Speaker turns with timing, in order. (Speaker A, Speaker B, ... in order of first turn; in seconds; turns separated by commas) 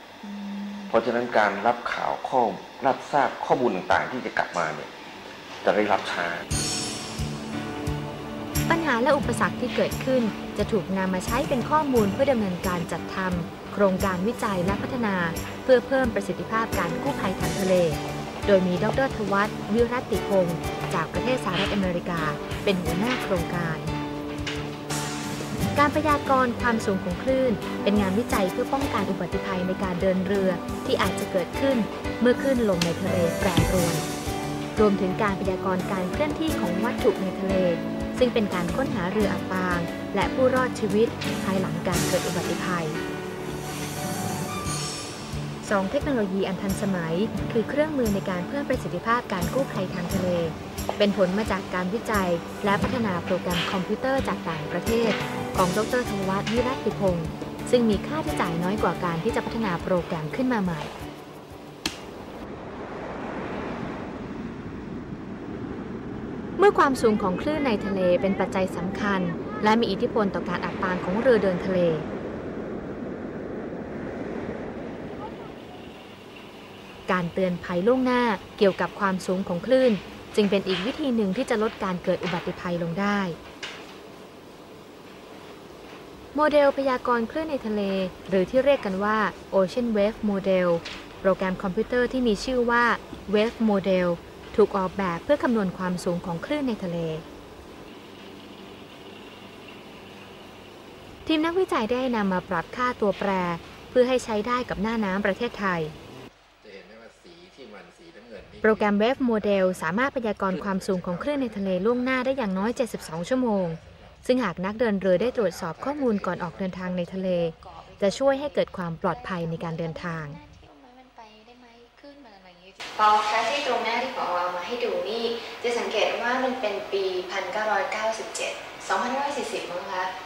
Speaker A: 0.2-0.8, Speaker B: 0.9-4.9, Speaker B: 5.6-6.5, Speaker C: 8.7-23.9, Speaker C: 25.8-34.1, Speaker C: 34.8-43.0, Speaker C: 45.6-60.9, Speaker C: 66.6-72.1, Speaker C: 77.1-83.4, Speaker C: 86.3-97.2, Speaker C: 101.2-105.9, Speaker D: 106.6-109.9, Speaker C: 108.6-120.4, Speaker D: 110.5-114.2, Speaker D: 115.1-117.0, Speaker A: 117.2-130.1